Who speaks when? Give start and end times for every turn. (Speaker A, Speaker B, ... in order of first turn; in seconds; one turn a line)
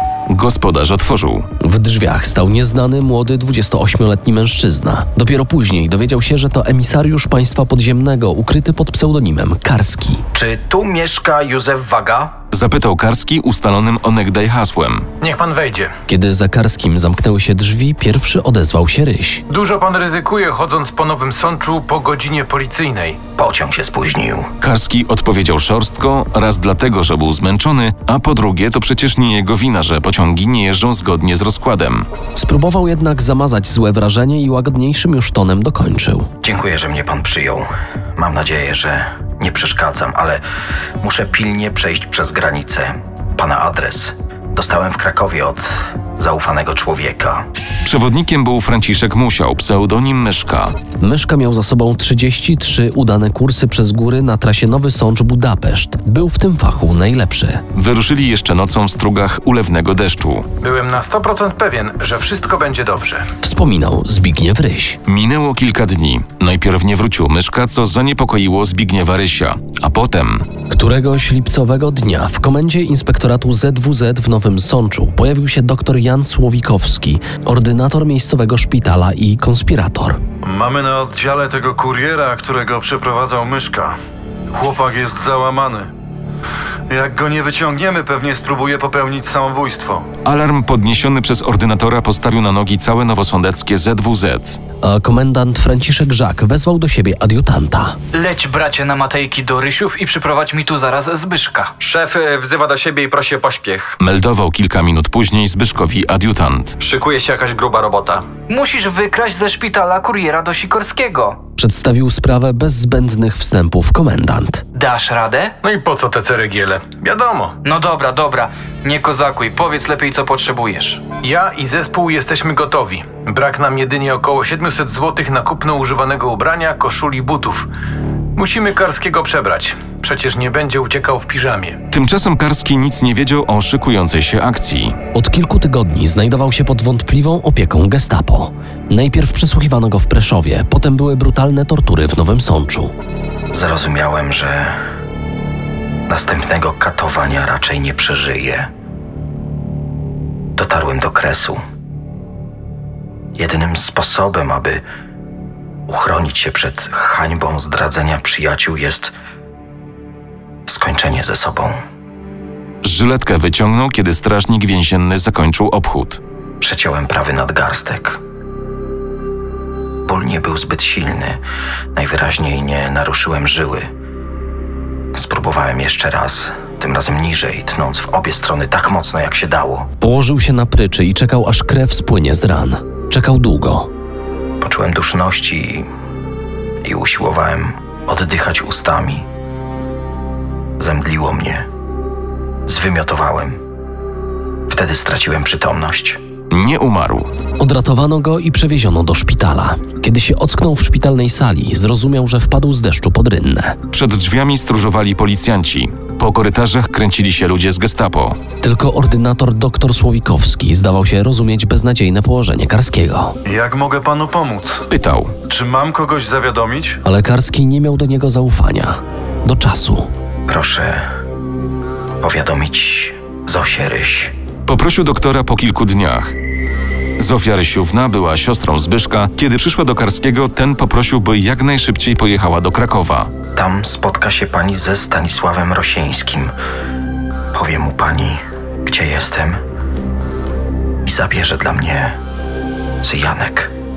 Speaker A: 0.3-1.5
Speaker B: 1.6-10.2
Speaker C: 10.3-12.3
Speaker A: 12.5-15.1
Speaker D: 15.2-15.9
Speaker B: 16.1-19.4
Speaker D: 19.5-23.2
Speaker C: 23.4-24.5
Speaker A: 24.6-32.1
Speaker B: 32.3-36.3
Speaker C: 36.4-40.4
Speaker C: 41.0-47.4
Speaker A: 47.8-50.8
Speaker B: 51.0-57.6
Speaker A: 57.7-60.5
Speaker D: 60.6-63.2
Speaker B: 63.4-65.0
Speaker A: 65.1-70.5
Speaker B: 70.7-80.2
Speaker E: 80.4-84.0
Speaker E: 84.5-85.9
Speaker E: 86.9-90.0
Speaker A: 90.2-94.6
Speaker B: 94.8-98.0
Speaker F: 98.1-101.7
Speaker G: 101.8-103.9
Speaker A: 104.0-106.7
Speaker G: 106.8-108.3
Speaker F: 108.5-111.4
Speaker B: 111.6-114.7
Speaker F: 114.7-115.5
Speaker D: 115.6-117.5
Speaker F: 117.6-121.0
Speaker D: 121.2-127.7
Speaker D: 128.4-131.8
Speaker A: 131.9-135.0
Speaker B: 135.2-142.9
Speaker C: 143.5-144.8
Speaker C: 146.1-148.7
Speaker C: 150.6-151.6
Speaker C: 153.3-154.8
Speaker C: 155.9-159.1
Speaker C: 160.7-161.8
Speaker A: 162.8-166.2
Speaker C: 166.6-168.2
Speaker C: 170.1-171.4
Speaker C: 172.0-173.9
Speaker C: 175.2-179.9
Speaker B: 180.0-183.9
Speaker C: 184.6-185.9
Speaker C: 186.8-189.3
Speaker C: 190.8-191.7
Speaker C: 192.7-193.6
Speaker C: 194.7-196.2
Speaker A: 196.5-197.3
Speaker B: 197.6-203.8
Speaker A: 203.9-208.4
Speaker B: 208.6-213.3
Speaker E: 213.5-214.8
Speaker A: 214.9-215.3
Speaker E: 215.5-216.9
Speaker B: 217.0-220.1
Speaker C: 220.5-221.0
Speaker C: 222.2-224.3
Speaker A: 224.7-226.3
Speaker A: 227.2-233.3
Speaker C: 233.5-236.5
Speaker C: 237.5-239.6
Speaker C: 241.0-242.2
Speaker C: 243.0-243.7